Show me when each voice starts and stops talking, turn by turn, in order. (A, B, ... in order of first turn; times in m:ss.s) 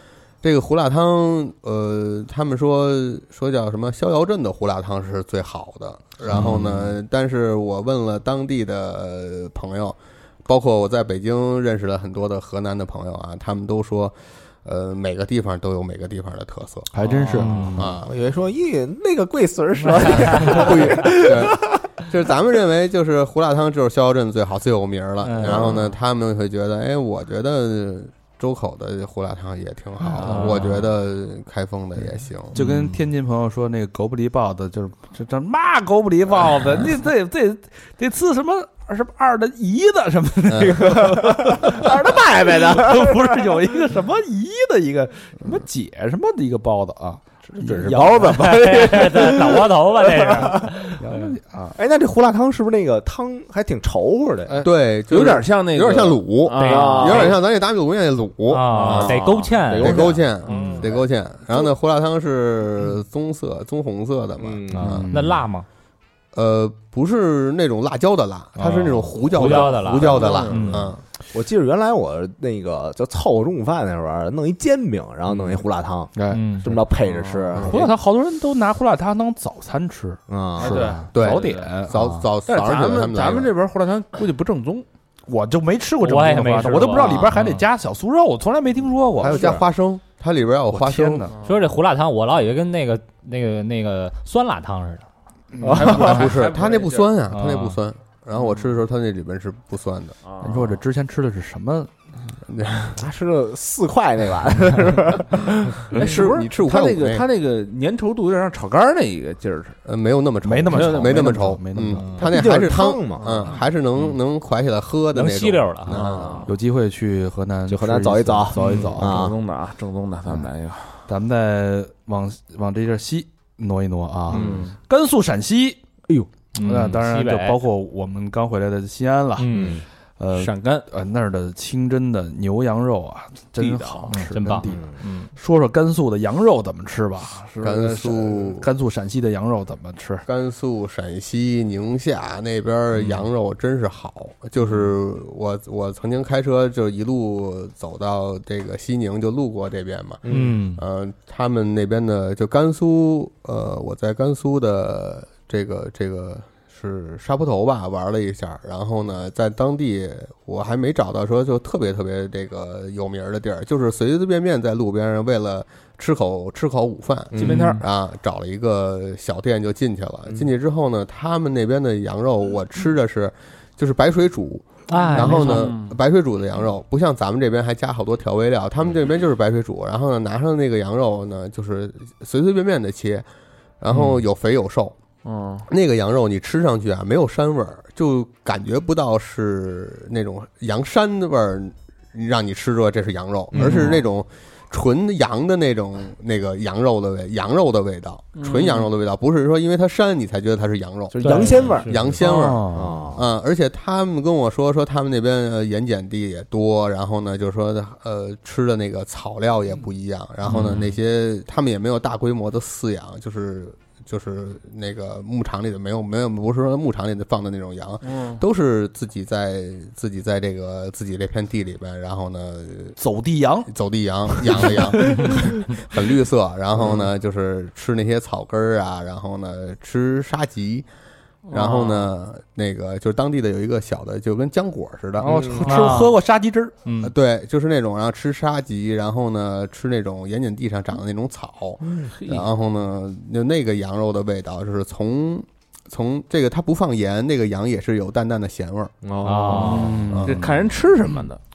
0:00.4-0:16.9 A
0:06.3-0:06.9 B
0:06.3-0:06.6 C
0:16.9-0:17.9 B
0:17.2-0:17.9 C
0:17.8-0:18.1 A
0:18.0-0:21.8 D
0:19.8-0:20.7 C
0:20.2-0:32.6 A
0:25.2-0:25.8 C
0:30.1-0:30.7 B
0:30.2-0:30.7 C
0:32.5-0:48.8 B
0:40.5-0:40.8 A
0:40.6-0:43.6 D
0:47.5-0:50.9 D
0:48.4-0:51.3 C
0:51.0-0:51.8 B
0:51.8-0:54.6 D
0:54.6-0:57.4 E
0:54.6-1:05.1 A
0:56.6-0:57.3 C
0:56.6-0:57.4 D
0:58.5-1:00.8 C
0:58.7-0:59.6 E
0:59.7-1:01.7 D
1:00.5-1:00.8 E
1:04.4-1:05.0 D
1:04.8-1:05.5 B
1:04.8-1:05.7 C
1:06.3-1:11.0 A
1:08.6-1:09.5 B
1:08.8-1:10.9 C
1:10.0-1:10.8 E
1:11.3-1:17.9 D
1:16.2-1:16.5 B
1:16.3-1:16.8 C
1:17.0-1:17.8 E
1:17.6-1:22.3 B
1:20.3-1:21.0 D
1:20.6-1:21.7 E
1:21.1-1:23.5 A
1:22.5-1:24.9 E
1:25.3-1:29.5 B
1:26.0-1:27.7 C
1:29.2-1:29.6 D
1:29.2-1:31.4 A
1:30.7-1:31.4 B
1:31.3-1:31.6 E
1:31.4-1:35.1 C
1:35.5-1:36.2 B
1:35.6-1:36.3 D
1:35.7-1:37.1 E
1:35.8-1:40.2 A
1:37.3-1:37.8 C
1:38.4-1:38.7 E
1:40.2-1:40.8 E
1:40.4-1:41.9 B
1:42.4-1:43.0 A
1:43.0-1:45.8 D
1:45.9-1:49.8 E
1:45.9-1:47.2 A
1:49.9-1:56.5 A
1:50.4-1:52.2 B
1:50.7-1:51.3 E
1:52.0-1:52.3 C
1:52.2-1:53.5 D
1:53.2-1:54.1 E
1:55.1-1:56.1 C
1:55.9-1:56.4 D
1:56.0-1:56.5 E
1:56.5-1:59.2 B
1:57.7-1:59.4 D
1:58.6-2:01.1 E
1:58.6-1:58.9 C
2:01.1-2:05.8 B
2:04.3-2:04.7 D
2:04.3-2:04.8 E
2:06.5-2:07.6 C
2:06.6-2:09.6 B
2:09.4-2:09.8 C
2:09.5-2:09.8 D
2:10.2-2:20.3 B
2:10.3-2:10.9 E
2:13.6-2:14.2 E
2:14.1-2:15.3 C
2:14.7-2:15.0 D
2:17.6-2:18.7 A
2:20.3-3:03.3 A
2:22.9-2:23.3 E
2:30.2-2:30.6 D
2:30.3-2:30.8 C
2:47.3-2:47.7 D
2:47.4-2:47.8 E
2:54.9-2:55.7 C
2:55.1-2:56.0 E
3:03.8-3:05.0 A
3:05.2-3:05.7 E
3:05.7-3:43.0 A
3:13.5-3:14.0 B
3:18.4-3:18.9 E
3:21.2-3:22.0 D
3:21.2-3:22.1 C
3:21.3-3:21.7 E
3:22.2-3:23.0 B
3:22.7-3:23.3 D
3:30.5-3:30.8 C
3:30.5-3:30.8 E
3:38.0-3:38.4 E
3:43.0-3:43.7 B
3:43.7-3:50.9 A
3:44.4-3:45.5 B
3:51.5-3:52.1 E
3:51.5-3:55.3 A
3:55.2-3:56.8 B
3:55.2-3:55.6 D
3:55.6-3:56.2 C
3:56.8-3:57.1 C
3:57.0-4:08.9 A
4:01.8-4:02.1 D
4:02.2-4:02.5 E
4:09.0-4:10.0 D
4:09.2-4:10.2 C
4:09.5-4:10.5 B
4:10.1-4:10.4 A
4:10.2-4:11.4 E